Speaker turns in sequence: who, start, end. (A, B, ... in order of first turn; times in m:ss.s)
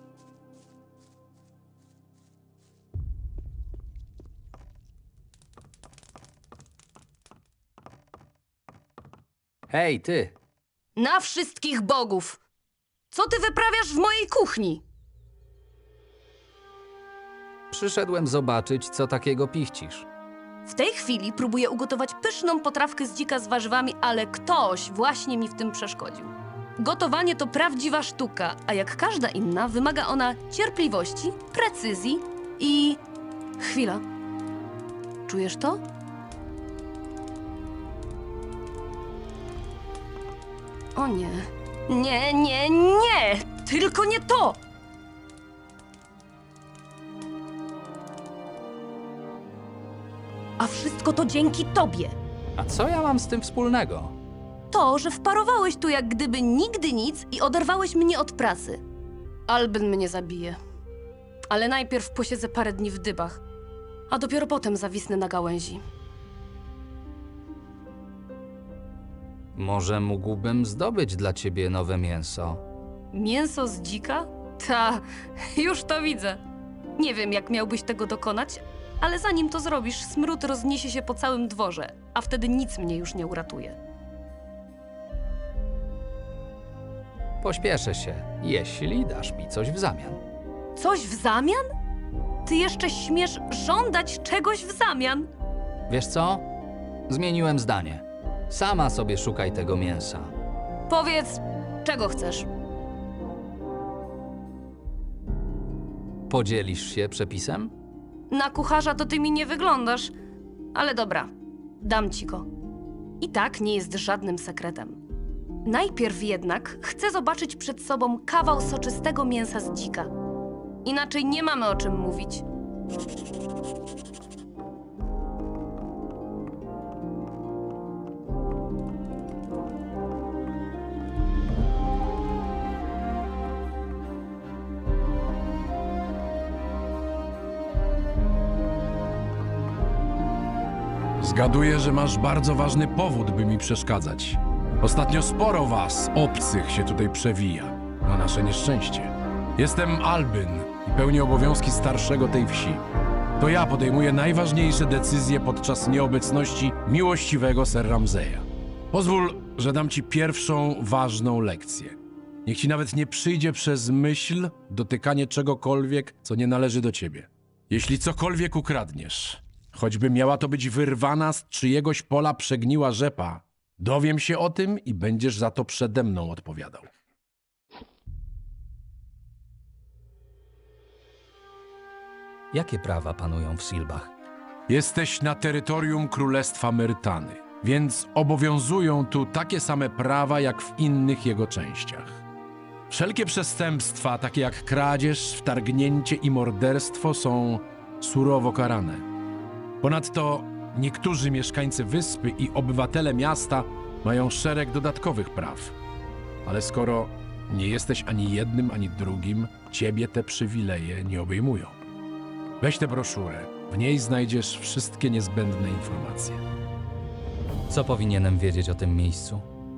0:09.7-0:10.4 A
0:11.0-0:12.4 B
0:13.1-0:14.8 B
0:17.7-0:20.1 A
0:20.6-0:33.0 B
0:33.6-0:34.0 B
0:35.3-0:35.8 B
0:41.0-0:44.6 B
0:50.6-0:52.2 B
0:52.6-0:54.1 A
0:54.7-0:58.8 B
0:59.5-1:00.6 B
1:01.5-1:03.4 B
1:04.1-1:05.8 B
1:09.5-1:12.6 A
1:13.1-1:16.4 B
1:17.0-1:23.8 B
1:27.4-1:30.2 A
1:30.8-1:31.6 B
1:32.4-1:35.3 B
1:35.9-1:36.4 A
1:37.1-1:40.3 A
1:40.9-1:42.5 B
1:46.3-1:47.7 A
1:48.3-1:50.1 B
1:50.7-1:51.3 B
1:51.8-1:52.5 B
1:53.2-1:55.0 B
1:55.6-2:00.1 B
2:00.8-2:02.4 B
2:21.2-2:32.8 C
2:33.4-2:56.9 C
3:02.5-3:04.1 A
3:04.7-3:12.2 C
3:12.9-3:19.0 C
3:19.8-3:25.7 C
3:26.4-3:31.8 C
3:32.6-3:36.4 C
3:37.7-3:39.4 A